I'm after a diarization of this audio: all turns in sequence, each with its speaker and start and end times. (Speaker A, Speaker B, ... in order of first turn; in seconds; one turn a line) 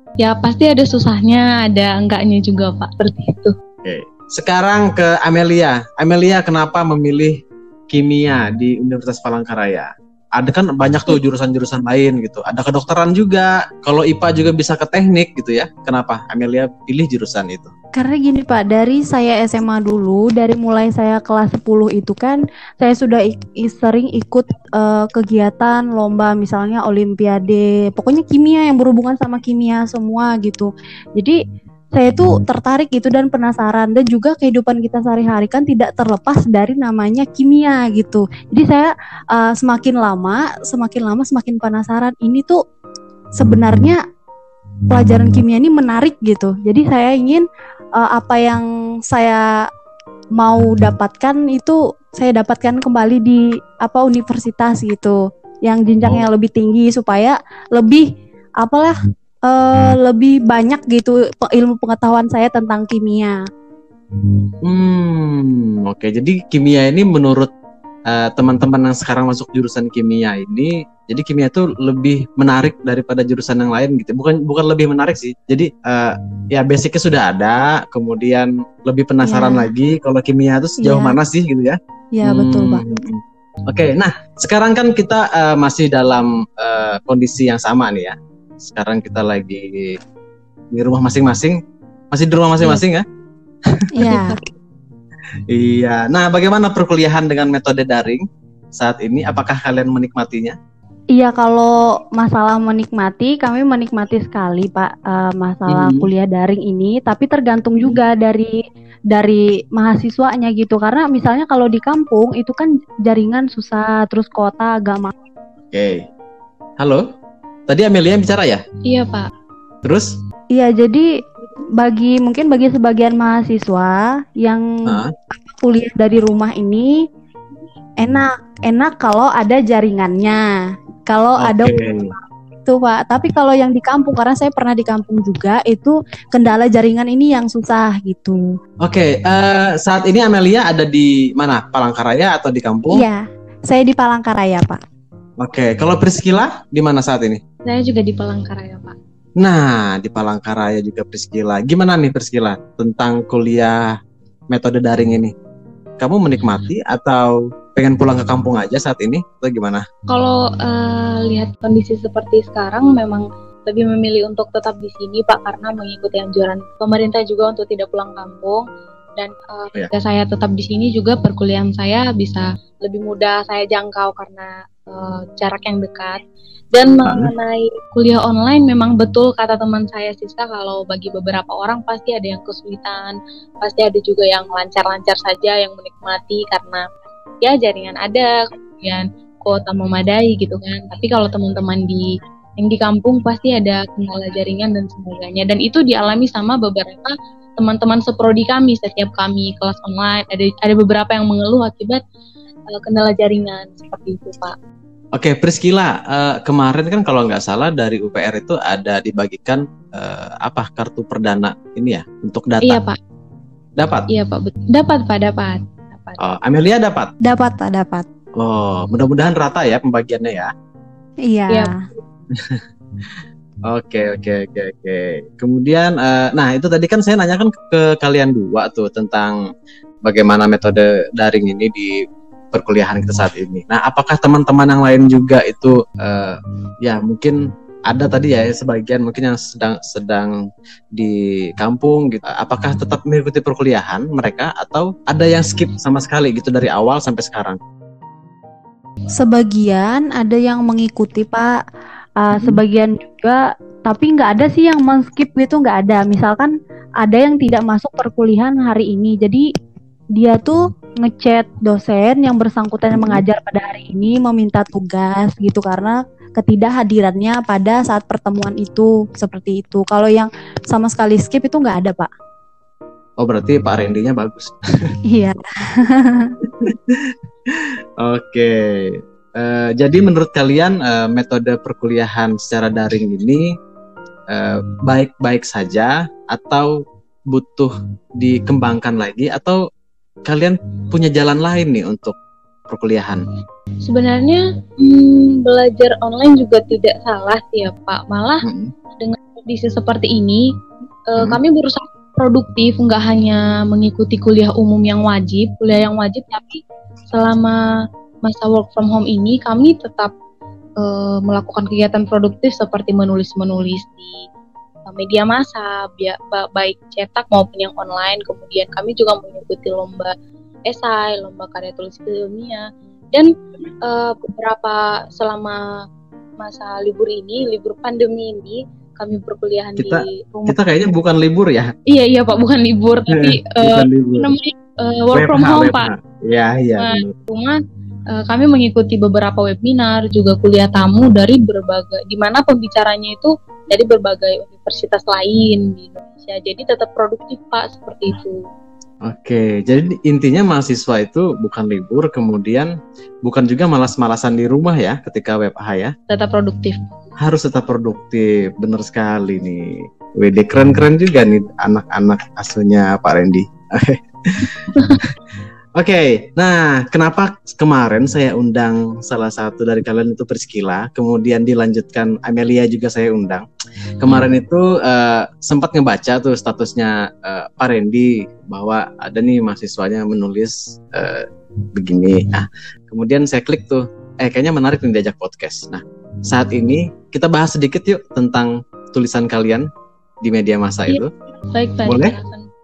Speaker A: 0.2-3.5
Speaker B: 3.8-17.7
Speaker C: 17.9-31.4
Speaker C: 32.0-42.6
Speaker C: 43.4-44.0
Speaker C: 44.9-49.7
Speaker C: 50.4-63.4
Speaker B: 64.6-67.5
Speaker B: 68.1-90.0
Speaker C: 79.2-79.7
Speaker C: 80.8-81.2
Speaker C: 82.2-82.8
Speaker B: 90.7-91.6
Speaker B: 92.1-93.0
Speaker C: 93.9-94.4
Speaker A: 94.0-94.4
Speaker B: 95.5-100.6
Speaker C: 101.2-108.6
Speaker B: 105.7-106.1
Speaker C: 109.1-115.1
Speaker B: 115.7-116.1
Speaker B: 116.8-117.1
Speaker B: 117.7-118.6
Speaker A: 118.8-119.3
Speaker B: 119.8-120.2
Speaker C: 120.5-121.1
Speaker C: 121.8-127.0
Speaker B: 124.8-125.1
Speaker C: 128.0-130.5
Speaker C: 131.1-131.7
Speaker B: 131.4-132.1
Speaker C: 132.7-138.4
Speaker B: 138.8-143.1
Speaker C: 142.9-144.8
Speaker B: 145.4-147.4
Speaker A: 147.7-149.0
Speaker B: 149.4-154.0
Speaker B: 154.5-155.3
Speaker B: 156.0-159.8
Speaker A: 160.1-168.7
Speaker A: 169.2-176.2
Speaker A: 176.7-186.8
Speaker B: 177.1-177.3
Speaker A: 187.4-202.0
Speaker A: 202.7-204.6
Speaker B: 205.2-212.8
Speaker A: 212.6-213.0
Speaker B: 213.8-214.1
Speaker A: 214.1-216.2
Speaker B: 216.2-217.1
Speaker C: 217.2-218.1
Speaker B: 218.4-220.5
Speaker C: 221.2-221.8
Speaker B: 222.3-222.6
Speaker B: 223.7-229.4
Speaker B: 230.1-232.0
Speaker B: 232.5-240.4
Speaker B: 240.9-247.6
Speaker C: 249.2-251.6
Speaker C: 252.2-259.5
Speaker B: 252.4-252.6
Speaker C: 260.2-272.1
Speaker B: 262.9-263.2
Speaker B: 273.2-274.6
Speaker C: 275.1-276.4
Speaker B: 276.5-283.5
Speaker B: 284.3-286.8
Speaker B: 287.3-289.6
Speaker B: 290.3-292.1
Speaker B: 292.7-293.2
Speaker A: 293.9-298.5
Speaker B: 298.4-298.7
Speaker A: 299.0-300.5
Speaker A: 301.1-307.6
Speaker A: 308.2-310.1
Speaker A: 310.8-314.2
Speaker A: 314.9-320.1
Speaker A: 320.7-325.8
Speaker A: 326.4-330.6
Speaker B: 329.8-331.7
Speaker A: 331.9-335.9
Speaker B: 333.1-334.3
Speaker B: 335.1-337.2
Speaker A: 336.8-337.6
Speaker A: 338.1-348.4
Speaker B: 349.1-352.7
Speaker B: 353.2-355.9
Speaker A: 356.1-356.8
Speaker B: 357.2-365.1
Speaker B: 365.8-373.4
Speaker B: 374.0-389.7
Speaker B: 390.2-391.1
Speaker A: 391.5-392.5
Speaker B: 391.9-392.2